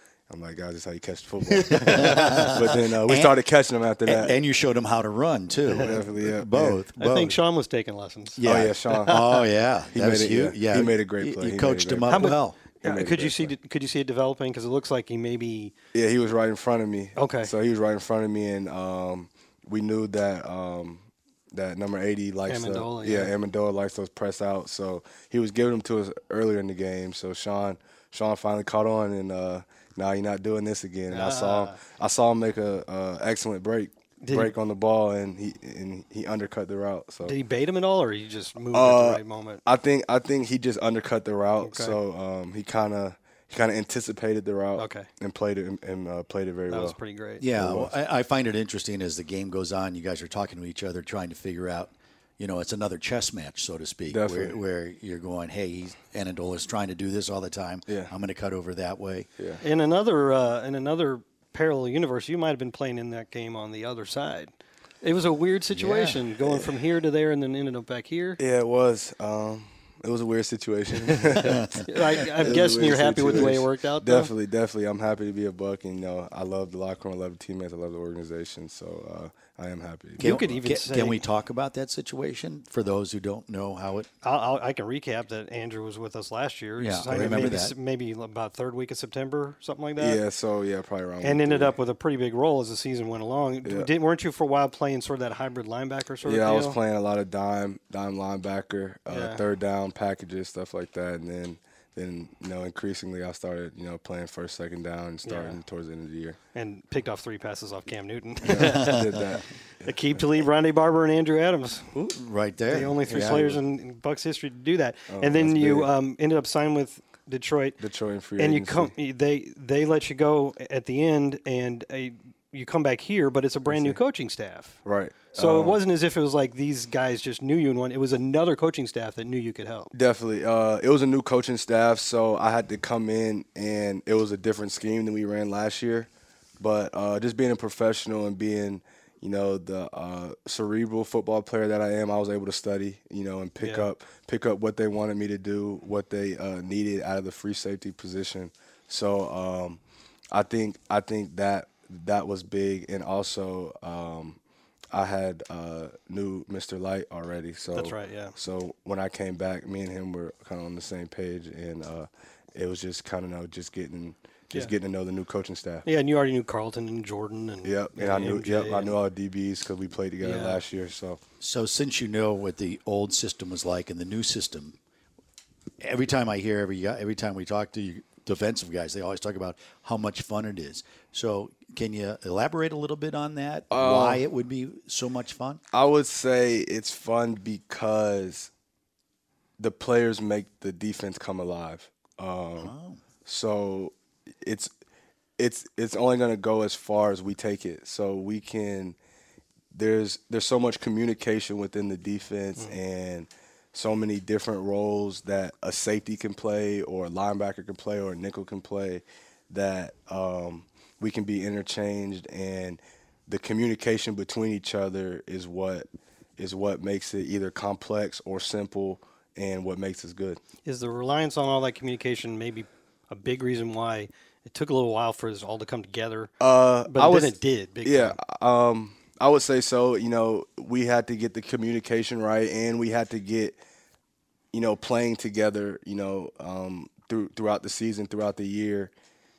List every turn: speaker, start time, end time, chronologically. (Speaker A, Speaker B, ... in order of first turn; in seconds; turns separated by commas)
Speaker A: 0.3-4.3, Speaker B: 1.5-3.4, Speaker B: 4.0-7.4, Speaker C: 5.7-6.0, Speaker A: 5.7-6.8, Speaker C: 7.0-9.2, Speaker B: 8.4-12.6, Speaker A: 8.4-13.5, Speaker C: 12.1-15.7, Speaker A: 15.9-37.4, Speaker C: 17.1-17.5, Speaker C: 22.5-23.3, Speaker C: 31.1-31.8, Speaker C: 34.2-34.5, Speaker C: 37.2-39.6, Speaker A: 38.7-47.0, Speaker C: 41.6-42.0, Speaker C: 44.8-45.1, Speaker C: 46.7-47.4, Speaker B: 47.4-59.3, Speaker A: 47.5-47.9, Speaker A: 54.1-54.5, Speaker C: 59.6-64.5, Speaker C: 65.0-68.4, Speaker B: 65.7-66.2, Speaker A: 68.4-80.6, Speaker B: 71.3-71.8, Speaker C: 71.4-74.3, Speaker C: 80.2-81.2, Speaker B: 80.2-84.1, Speaker C: 84.2-90.2, Speaker B: 86.8-87.7, Speaker A: 87.1-87.5, Speaker A: 90.0-91.8, Speaker C: 91.2-96.8, Speaker A: 93.6-93.9, Speaker A: 96.2-106.4, Speaker C: 99.1-99.4, Speaker C: 105.2-105.6, Speaker C: 106.5-109.1, Speaker A: 108.5-110.2, Speaker B: 108.6-109.1, Speaker C: 109.8-112.0, Speaker B: 111.9-113.5, Speaker C: 112.7-117.8, Speaker A: 113.0-113.6, Speaker A: 115.1-115.9, Speaker A: 117.8-118.9, Speaker C: 118.4-124.8, Speaker A: 123.7-124.0, Speaker A: 124.8-125.8, Speaker C: 125.3-129.9, Speaker A: 129.9-149.8, Speaker C: 143.6-143.9, Speaker A: 150.3-154.4, Speaker A: 154.9-165.8, Speaker C: 157.7-158.3, Speaker C: 165.8-168.9, Speaker A: 167.6-171.2, Speaker C: 170.2-170.6, Speaker B: 171.4-174.8, Speaker B: 175.8-185.6, Speaker A: 183.7-184.2, Speaker A: 185.7-188.5, Speaker A: 189.6-192.7, Speaker B: 192.6-193.0, Speaker A: 193.2-194.7, Speaker A: 195.4-199.0, Speaker A: 199.7-215.9, Speaker A: 216.4-220.4, Speaker C: 220.6-226.3, Speaker A: 226.4-233.6, Speaker C: 226.8-228.2, Speaker A: 234.5-238.9